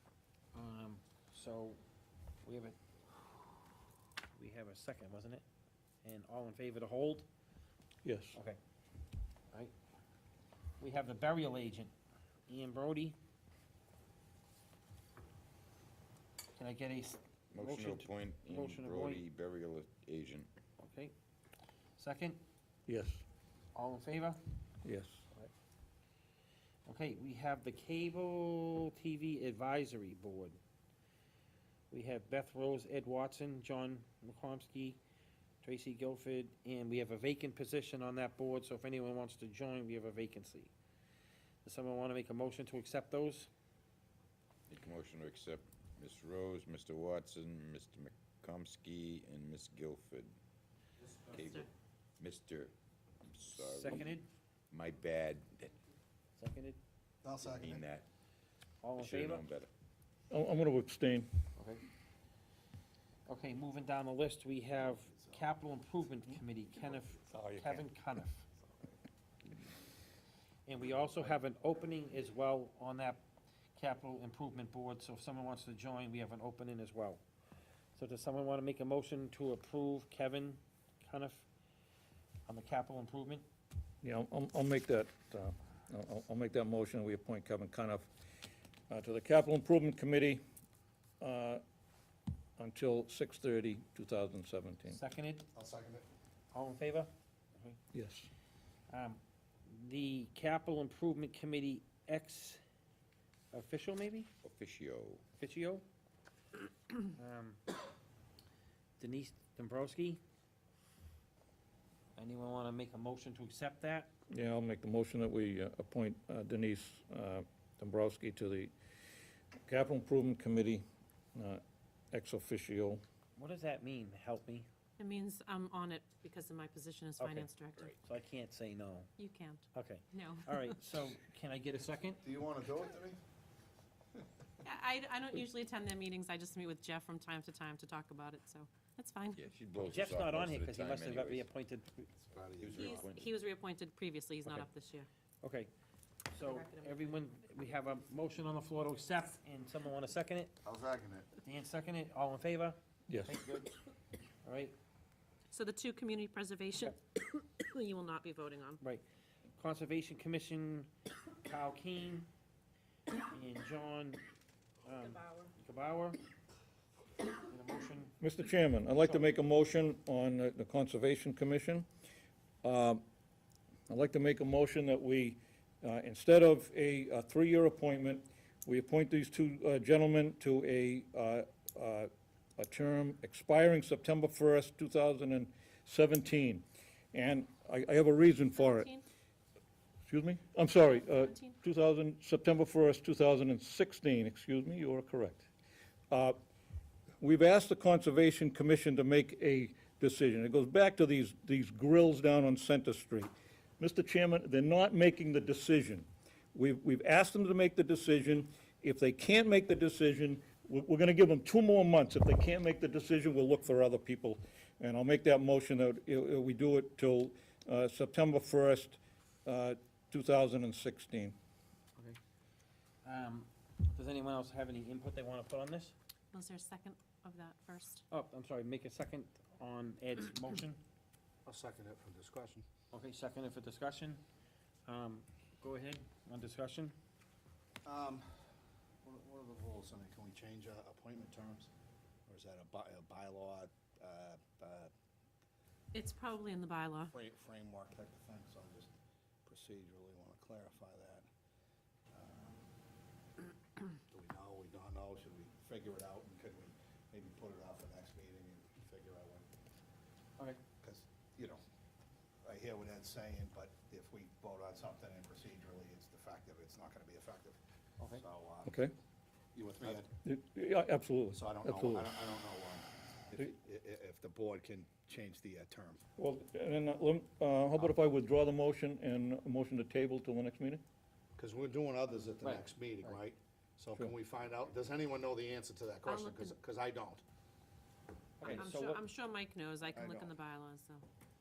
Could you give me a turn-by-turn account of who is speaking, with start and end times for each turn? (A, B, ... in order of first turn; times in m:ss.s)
0:00.5-0:01.8 A
0:02.4-0:02.8 A
0:04.4-0:05.4 A
0:06.0-0:07.3 A
0:08.0-0:08.4 B
0:10.8-0:11.9 A
0:12.5-0:13.2 A
0:16.6-0:19.2 A
0:17.5-0:20.5 C
0:20.8-0:21.1 A
0:22.0-0:22.4 A
0:22.9-0:23.2 B
0:23.7-0:24.4 A
0:24.8-0:25.2 B
0:26.9-0:30.6 A
0:31.9-0:35.0 A
0:35.6-0:40.7 A
0:41.6-0:43.5 A
0:44.7-0:50.4 C
0:51.3-0:51.7 C
0:52.2-0:54.1 C
0:53.5-0:54.3 A
0:54.7-0:55.8 C
0:56.4-0:56.8 A
0:57.2-0:57.9 D
0:57.4-0:58.1 C
0:58.8-0:59.5 A
0:59.0-0:59.7 C
1:00.3-1:01.3 B
1:01.6-1:01.8 A
1:03.3-1:08.4 A
1:04.8-1:05.5 D
1:07.3-1:07.9 B
1:10.7-1:13.2 A
1:13.8-1:17.2 A
1:18.0-1:21.5 A
1:22.5-1:23.5 A
1:24.0-1:28.1 B
1:28.9-1:30.4 B
1:31.2-1:31.6 B
1:32.6-1:35.0 B
1:34.9-1:35.5 A
1:35.5-1:36.0 D
1:36.5-1:37.8 A
1:37.9-1:38.3 B
1:38.9-1:42.6 A
1:43.5-1:44.3 A
1:44.4-1:45.2 C
1:45.4-1:45.8 A
1:47.1-1:47.6 A
1:49.0-1:50.2 A
1:52.2-1:54.1 A
1:54.3-1:58.7 B
1:59.7-2:00.8 B
2:01.4-2:03.0 B
2:03.4-2:04.7 A
2:05.0-2:07.9 E
2:07.2-2:07.5 A
2:08.0-2:09.1 A
2:09.2-2:10.6 E
2:09.7-2:12.2 A
2:12.2-2:13.2 D
2:14.6-2:19.4 E
2:19.3-2:21.5 C
2:19.8-2:22.1 A
2:22.2-2:23.1 D
2:22.6-2:23.4 C
2:22.8-2:25.1 E
2:25.4-2:25.7 A
2:26.3-2:30.5 A
2:26.4-2:27.0 E
2:30.6-2:31.3 D
2:31.4-2:33.7 A
2:33.1-2:33.4 B
2:34.4-2:34.8 A
2:35.5-2:38.8 E
2:39.6-2:40.9 A
2:41.4-2:42.3 A
2:43.3-2:44.2 A
2:44.8-2:46.2 A
2:44.9-2:45.5 E
2:47.5-2:48.2 A
2:48.2-2:51.9 B
2:52.6-2:53.0 B
2:53.9-3:08.9 B
3:08.6-3:09.0 E
3:10.0-3:15.5 B
3:10.8-3:11.6 E
3:16.1-3:16.4 B
3:17.2-3:41.4 B
3:43.0-3:46.0 A
3:46.3-3:48.0 E
3:48.1-3:50.8 A
3:51.5-3:52.7 D
3:52.9-3:54.2 A
3:54.9-3:57.0 A
3:57.8-3:58.3 D
3:59.0-4:01.7 D
4:02.3-4:04.9 D
4:05.9-4:07.1 E
4:07.1-4:08.9 D
4:09.5-4:11.2 D
4:12.1-4:12.7 D
4:14.1-4:19.5 D
4:20.8-4:21.6 D
4:22.4-4:27.6 D
4:28.1-4:28.8 D
4:28.7-4:28.9 B
4:29.6-4:30.1 D
4:30.2-4:32.1 B
4:31.3-4:36.0 D
4:36.2-4:40.8 B
4:41.4-4:47.2 D
4:42.4-4:43.2 A
4:46.1-4:46.6 E
4:48.4-4:49.0 A
4:48.4-4:51.0 E
4:49.9-4:50.3 D